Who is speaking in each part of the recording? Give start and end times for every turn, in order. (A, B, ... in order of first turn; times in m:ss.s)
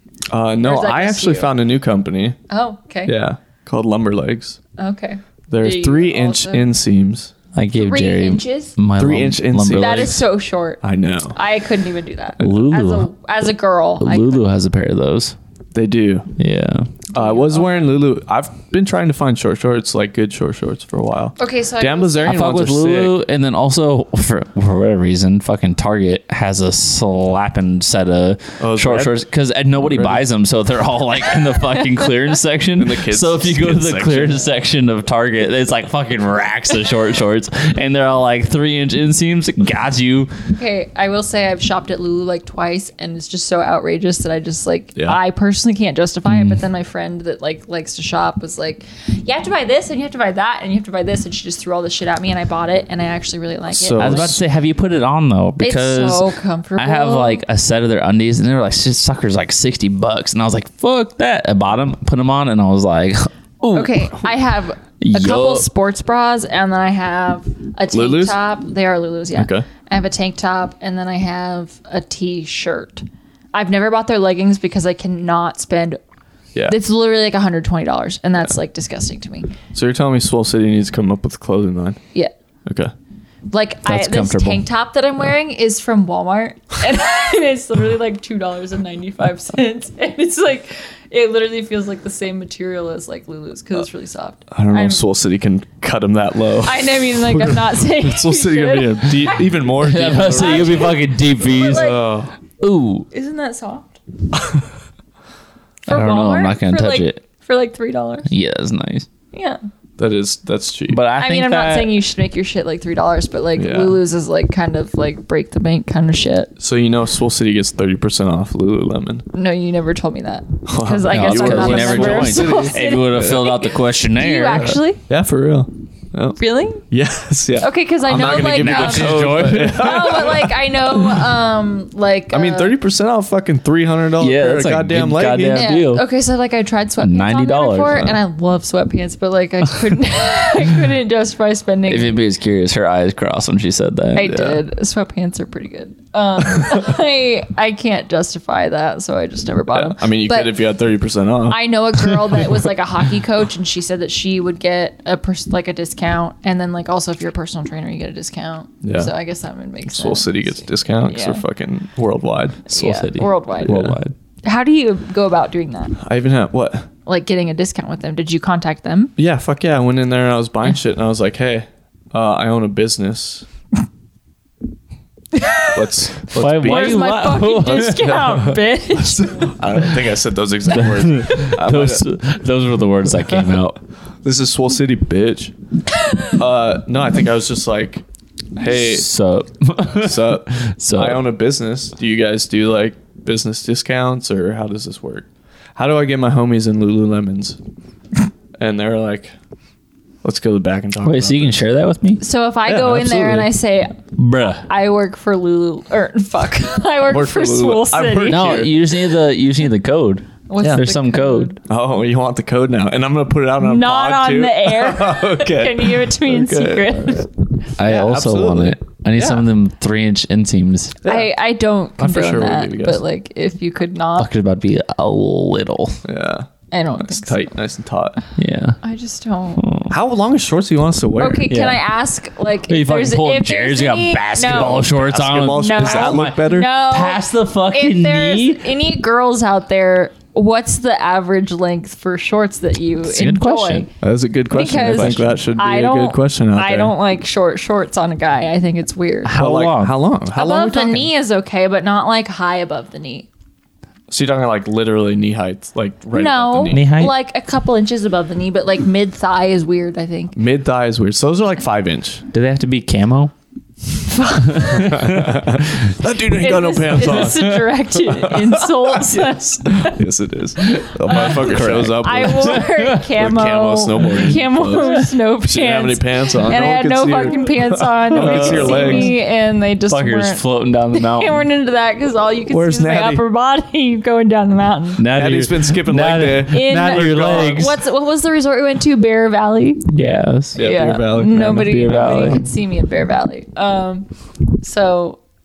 0:00.3-0:02.4 A
0:00.6-0:01.6 B
0:02.5-0:03.2 B
0:03.1-0:04.6 A
0:04.8-0:06.8 B
0:05.5-0:07.3 A
0:07.6-0:10.2 C
0:07.7-0:08.8 B
0:09.0-0:10.2 A
0:09.7-0:10.8 B
0:10.8-0:11.4 A
0:11.3-0:14.4 B
0:12.4-0:13.1 C
0:14.0-0:15.4 C
0:15.7-0:16.3 A
0:16.4-0:16.9 C
0:17.1-0:17.9 B
0:17.1-0:23.2 A
0:21.4-0:22.3 B
0:22.2-0:40.3 C
0:28.6-0:29.2 A
0:29.8-0:30.2 A
0:32.8-0:34.5 A
0:40.6-0:54.4 B
0:46.3-0:46.6 C
0:53.7-0:54.4 A
0:54.0-1:04.2 C
0:55.6-0:57.4 B
1:03.7-1:16.0 B
1:05.0-1:05.6 C
1:07.9-1:08.4 A
1:09.4-1:09.7 A
1:16.7-1:19.5 B
1:19.7-1:22.0 A
1:22.7-1:22.9 A
1:23.5-1:35.0 B
1:23.9-1:24.6 C
1:34.5-1:40.9 A
1:36.6-1:39.5 B
1:39.8-1:42.0 C
1:40.0-1:42.0 B
1:41.6-1:42.3 A
1:42.6-1:43.1 C
1:43.1-1:44.0 B
1:45.9-1:48.3 B
1:45.9-1:47.2 C
1:48.3-1:49.1 C
1:49.3-1:49.6 B
1:50.0-1:51.0 A
1:50.9-1:52.0 C
1:51.2-1:56.5 B
1:53.6-1:54.0 A
1:56.6-1:59.2 A
1:59.3-2:05.0 B
2:00.7-2:03.4 A
2:01.1-2:04.8 C
2:04.6-2:11.3 A
2:06.4-2:06.8 B
2:07.6-2:12.8 B
2:08.1-2:10.3 C
2:12.3-2:15.7 A
2:14.2-2:16.0 C
2:15.5-2:22.2 B
2:17.0-2:18.2 C
2:21.9-2:24.6 C
2:24.2-2:30.6 B
2:29.7-2:31.7 A
2:31.5-2:41.4 B
2:38.8-2:39.1 A
2:39.9-2:42.6 A
2:42.7-2:43.8 B
2:42.7-2:44.1 C
2:43.6-2:44.0 A
2:44.4-2:46.0 B
2:46.0-2:46.9 A
2:47.1-2:49.1 B
2:49.2-2:53.5 A
2:55.3-2:55.8 B
2:55.7-2:57.1 A
2:56.3-2:58.2 C
2:56.6-2:59.6 B
2:57.6-3:02.1 A
3:00.8-3:03.8 C
3:04.2-3:05.5 A
3:06.3-3:08.0 A
3:08.6-3:09.1 A
3:08.7-3:11.2 C
3:10.0-3:17.6 A
3:18.6-3:19.3 A
3:20.2-3:21.6 A
3:21.0-3:22.2 C
3:22.2-3:24.0 B
3:22.6-3:23.5 A
3:24.2-3:24.7 C
3:24.6-3:28.7 B
3:27.1-3:28.8 A
3:28.3-3:31.5 C
3:30.5-3:31.6 B
3:31.7-3:37.3 A
3:33.6-3:37.3 B
3:37.8-3:41.0 C
3:37.8-3:39.4 A
3:41.0-3:44.3 B
3:42.0-3:43.0 A
3:44.2-3:46.0 C
3:46.0-3:48.2 A
3:46.7-3:47.5 B
3:48.4-3:48.8 C
3:48.8-3:49.7 B
3:49.6-3:49.9 C
3:49.9-3:51.5 A
3:51.2-3:54.9 B
3:51.5-3:51.8 C
3:52.7-3:58.6 C
3:54.5-3:56.7 A
3:55.5-4:03.9 B
4:03.1-4:03.9 C
4:04.0-4:07.0 A
4:04.5-4:09.4 B
4:04.7-4:05.3 C
4:09.2-4:10.0 C
4:09.3-4:11.1 A
4:10.3-4:13.3 B
4:14.1-4:16.8 A
4:16.1-4:20.4 B
4:16.7-4:17.1 C
4:20.4-4:22.2 A
4:22.3-4:23.3 C
4:24.1-4:25.0 B
4:24.3-4:25.9 C
4:24.7-4:39.1 A
4:26.3-4:30.0 B
4:27.0-4:27.6 C
4:30.7-4:33.0 C
4:31.1-4:31.4 B
4:32.0-4:45.0 B
4:38.1-4:39.2 C
4:39.9-4:41.4 C
4:42.5-4:43.2 A
4:45.0-4:47.8 C
4:45.2-4:47.7 A
4:46.5-4:49.9 B
4:49.9-4:50.6 C
4:50.6-4:52.4 A
4:50.6-4:55.2 B
4:51.3-4:52.4 C